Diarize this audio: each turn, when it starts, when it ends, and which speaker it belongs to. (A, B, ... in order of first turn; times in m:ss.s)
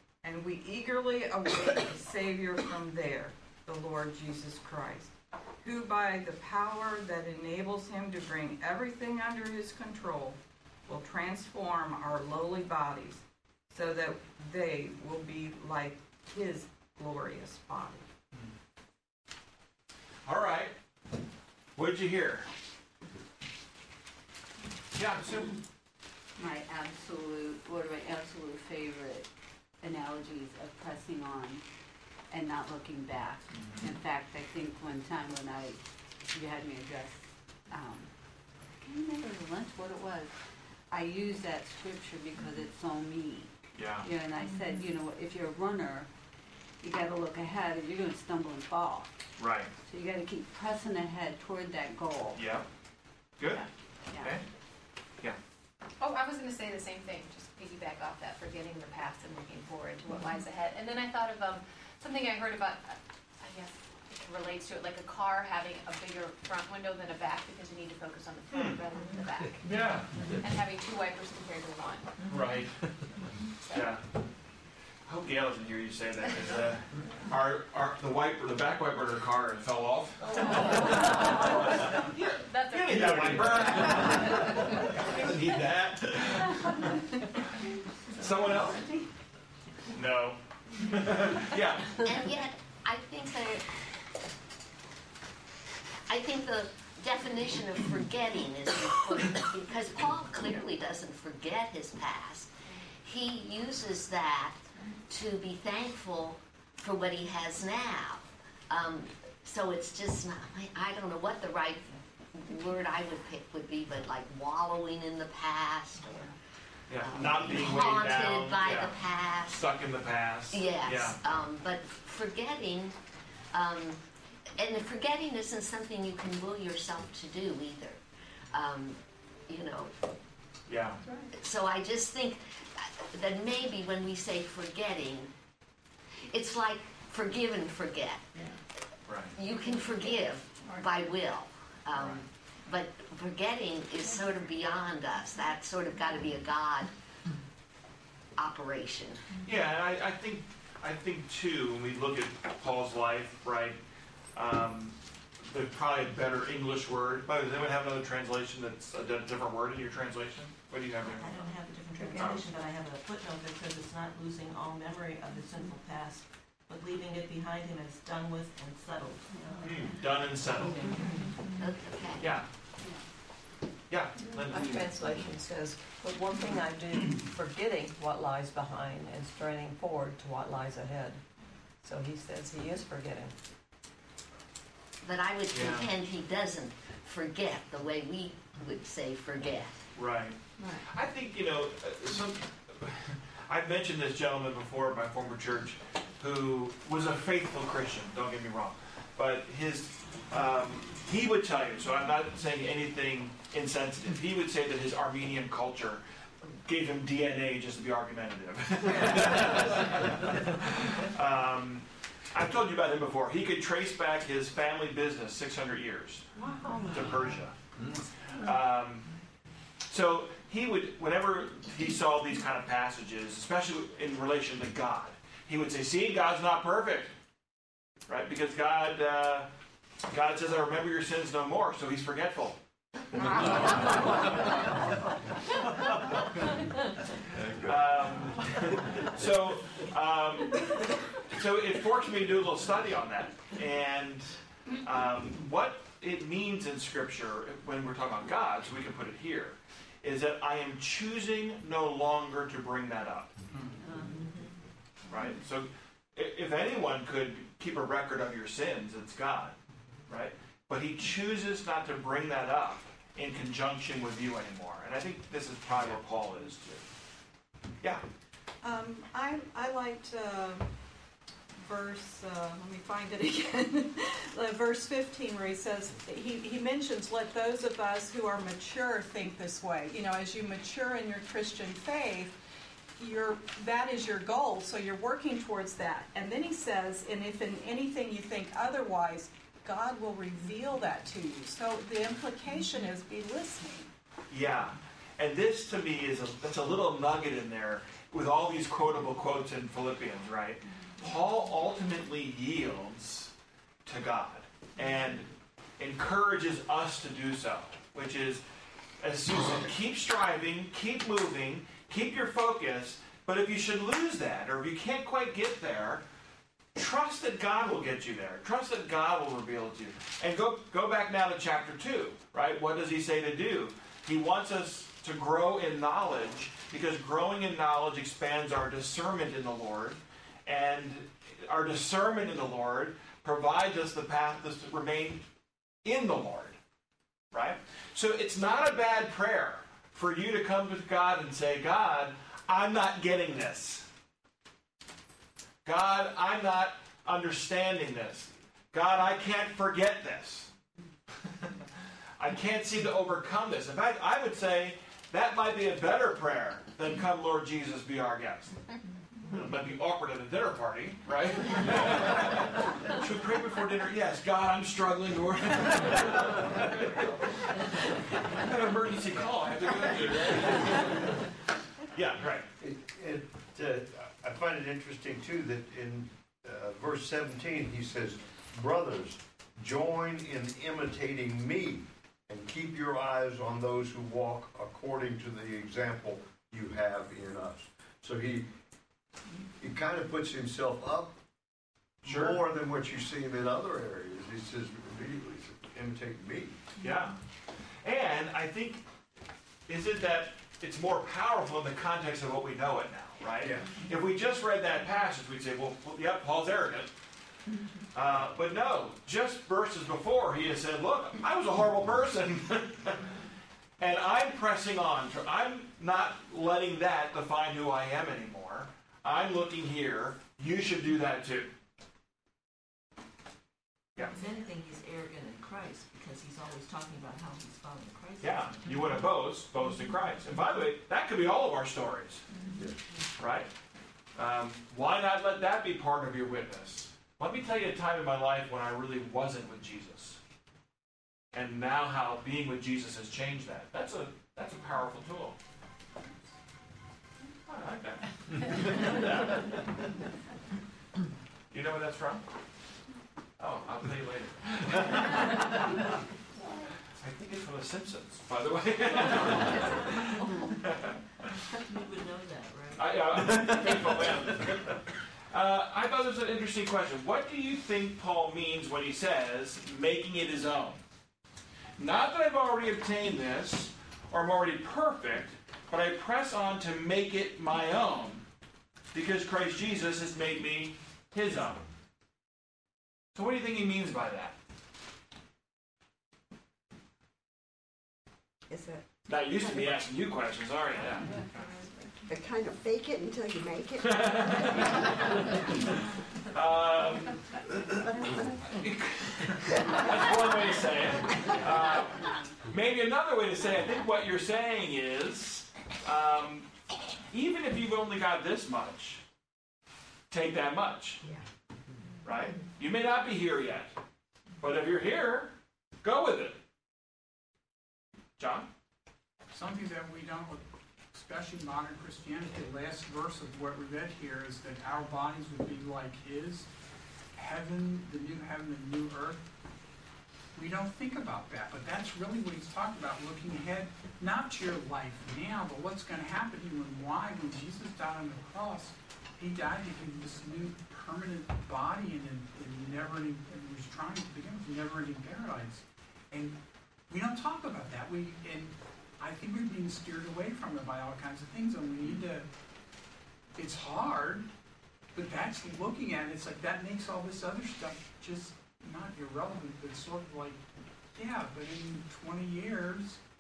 0:00.2-0:18.0 A
0:20.2-0:20.7 B
0:21.8-0:22.5 B
0:24.9-0:25.6 B
0:26.4-0:29.3 C
0:29.8-0:31.6 C
0:32.3-0:38.1 C
0:33.5-0:33.9 B
0:38.8-0:40.3 C
0:40.9-0:46.1 C
0:43.7-0:44.1 B
0:46.8-0:49.2 C
0:49.4-0:49.7 B
0:49.8-0:52.4 C
0:52.3-0:52.6 B
0:53.4-0:53.7 B
0:54.1-0:54.4 C
0:54.2-0:54.4 B
0:56.0-1:09.7 D
1:08.5-1:08.8 B
1:09.6-1:10.4 B
1:10.4-1:12.1 D
1:12.2-1:12.8 B
1:13.7-1:14.0 B
1:15.0-1:27.3 B
1:20.3-1:25.0 D
1:28.1-1:28.8 B
1:29.9-1:32.0 B
1:32.0-1:33.6 E
1:36.1-1:56.3 E
1:56.9-2:01.2 B
1:57.0-1:59.6 E
2:00.5-2:03.0 E
2:03.5-2:04.0 E
2:04.6-2:09.9 E
2:10.7-2:11.0 B
2:11.3-2:15.3 E
2:16.2-2:18.4 E
2:19.1-2:19.3 B
2:19.3-2:26.9 E
2:21.9-2:22.2 B
2:28.4-2:29.3 E
2:29.4-2:33.8 B
2:34.3-2:41.3 B
2:41.0-2:49.7 F
2:42.0-2:42.3 G
2:42.2-2:42.4 B
2:49.6-2:51.1 B
2:50.7-2:51.2 G
2:51.0-2:51.2 F
2:51.6-2:52.3 E
2:52.2-2:52.5 B
2:53.9-2:55.0 B
2:54.3-3:01.2 G
3:01.8-3:03.3 G
3:05.0-3:09.9 E
3:05.5-3:05.9 B
3:09.9-3:37.6 B
3:38.3-3:39.1 B
3:39.9-3:47.1 B
3:48.1-3:49.5 B
3:50.1-3:52.6 B
3:53.1-3:54.8 B
3:57.5-4:13.3 B
4:14.1-4:14.4 F
4:15.1-4:19.6 B
4:20.1-4:26.8 B
4:28.6-4:30.7 A
4:31.6-4:42.4 A
4:43.0-4:53.9 A
4:54.3-5:03.3 B
5:03.8-5:08.4 B
5:09.0-5:16.0 B
5:16.7-5:35.2 B
5:35.8-5:36.6 B
5:37.3-5:43.9 B
5:45.6-5:50.5 B
5:51.1-5:51.6 B
5:52.2-5:58.6 B
5:59.3-6:11.3 B
6:11.9-6:12.5 B
6:12.6-6:28.5 H
6:29.6-6:31.1 H
6:32.0-6:36.6 H
6:32.0-6:32.4 B
6:36.8-6:37.2 B
6:37.8-6:38.8 B
6:39.7-6:46.9 B
6:43.4-6:43.7 H
6:47.9-6:53.1 B
6:53.8-7:01.5 B
7:04.1-7:08.7 F
7:08.2-7:12.2 B
7:13.2-7:13.5 B
7:14.1-7:20.2 B
7:21.3-7:25.4 B
7:27.4-7:30.0 B
7:31.5-7:32.2 B
7:33.4-7:35.8 B
7:36.9-7:41.4 B
7:41.7-7:43.9 F
7:42.7-7:50.8 B
7:51.8-7:58.2 B
7:58.9-8:01.6 B
8:03.1-8:04.4 B
8:08.5-8:08.8 I
8:09.0-8:11.6 B
8:09.4-8:09.7 I
8:12.1-8:14.8 I
8:13.8-8:15.2 B
8:16.3-8:17.6 B
8:18.5-8:26.5 B
8:27.1-8:29.0 B
8:30.1-8:31.0 B
8:32.0-8:33.7 B
8:34.4-8:36.4 B
8:38.2-8:38.5 B
8:39.3-8:46.5 J
8:47.1-8:49.2 J
8:50.3-9:06.4 J
9:06.9-9:12.3 J
9:13.4-9:14.3 J
9:14.9-9:20.4 J
9:20.9-9:23.0 J